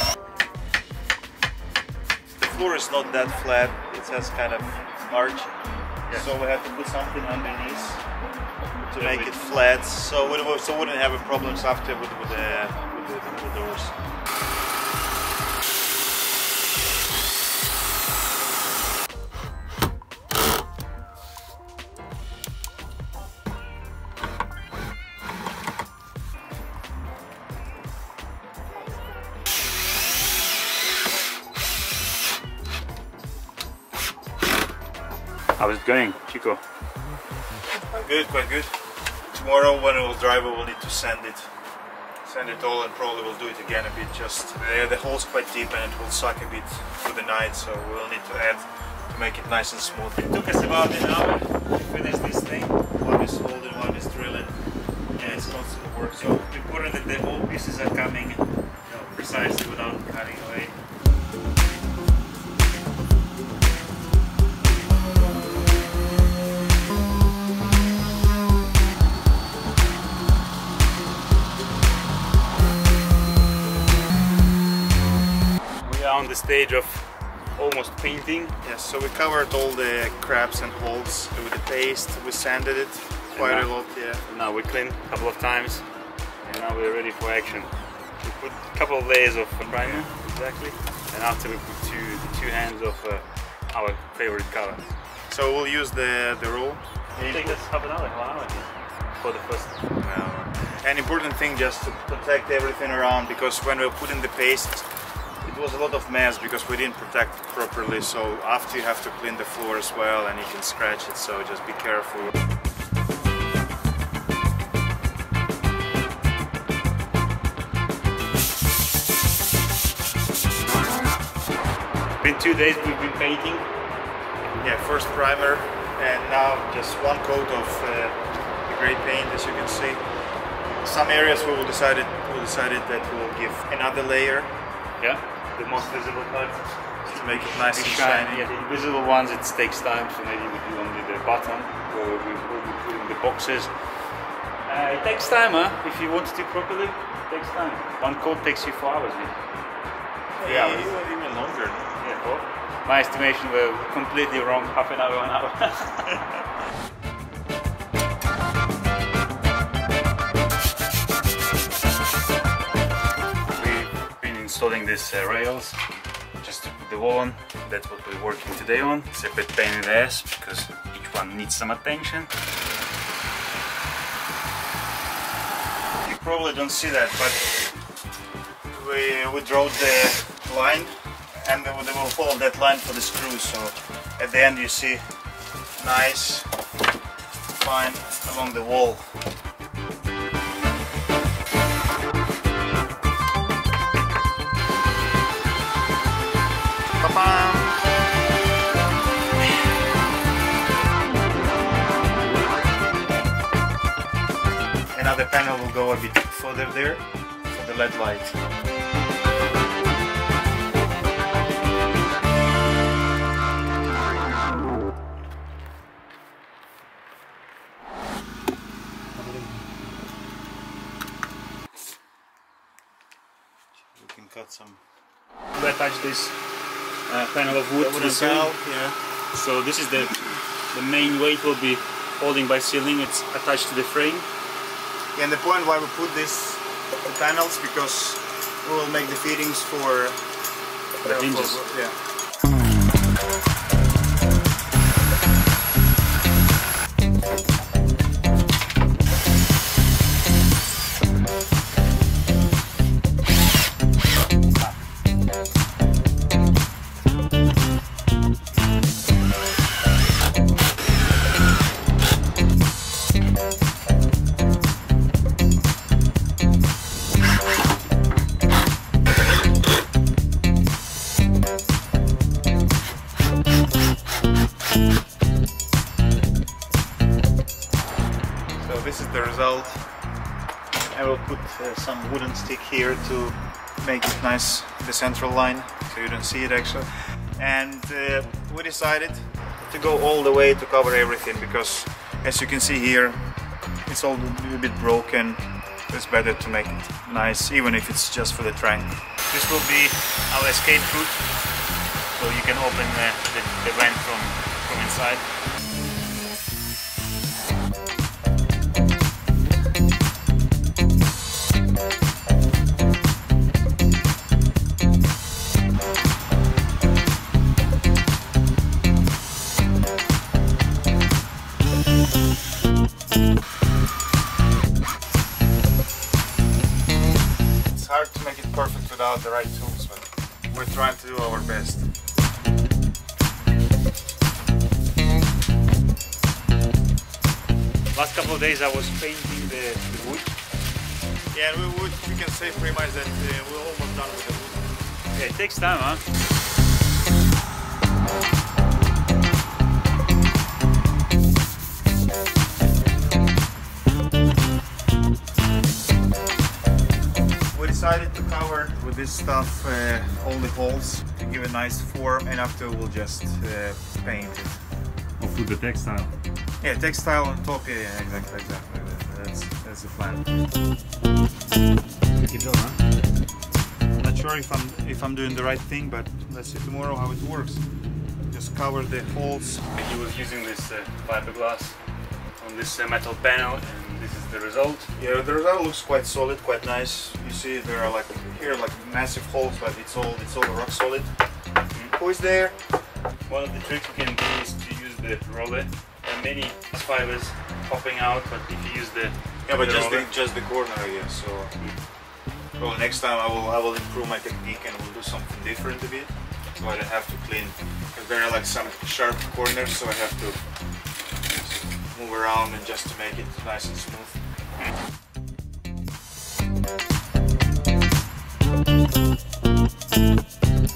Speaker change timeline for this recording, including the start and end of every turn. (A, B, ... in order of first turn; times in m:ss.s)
0:02.4-0:05.6 A
0:06.1-0:08.0 A
0:08.9-0:13.9 A
0:09.0-0:09.3 B
0:35.6-0:36.6 B
0:37.8-0:38.7 A
0:39.3-0:41.5 A
0:42.2-0:50.3 A
0:50.2-0:52.8 B
0:53.0-0:54.6 A
0:55.1-0:56.5 A
0:55.2-0:55.5 B
0:56.2-1:00.8 B
1:15.8-1:18.6 B
1:18.6-1:24.2 A
1:23.4-1:23.7 B
1:24.3-1:25.8 B
1:26.4-1:27.7 B
1:28.2-1:34.8 B
1:35.3-1:37.6 A
1:37.2-1:39.8 B
1:40.0-1:44.9 A
1:45.4-1:52.4 A
2:02.2-2:03.7 B
2:04.6-2:10.0 A
2:10.8-2:14.5 A
2:15.0-2:23.7 B
2:17.1-2:18.5 A
2:24.7-2:29.4 B
2:30.4-2:31.9 A
2:30.4-2:30.9 B
2:32.0-2:36.4 B
2:43.6-2:45.8 B
2:46.4-2:52.3 B
2:56.0-2:57.7 A
2:58.7-3:05.0 A
3:05.8-3:06.5 A
3:07.5-3:09.2 A
3:17.0-3:17.8 A
3:24.9-3:28.4 A
3:43.9-3:44.8 A
3:45.6-3:46.4 B
3:47.1-3:48.6 B
3:47.8-3:49.0 A
3:49.3-3:54.3 B
3:55.2-4:00.2 A
4:01.0-4:01.6 B
4:01.0-4:02.0 A
4:38.6-4:39.9 A
4:40.9-4:53.2 A
4:53.9-4:59.0 A
4:59.3-5:01.2 B
5:02.1-5:05.2 B
5:27.7-5:31.9 A
5:37.9-5:40.4 B
5:41.3-5:44.7 A
5:45.2-5:46.0 B
5:57.5-6:04.6 A
6:05.2-6:06.1 B
6:06.6-6:10.3 A
6:12.1-6:12.8 B
6:14.0-6:17.6 A
6:18.3-6:19.6 A
6:19.8-6:21.8 B
6:22.4-6:24.9 B
6:25.0-6:31.1 A
6:31.9-6:32.6 A
6:33.3-6:40.1 B
6:39.5-6:41.5 A
6:42.6-6:50.4 A
6:51.3-6:54.2 A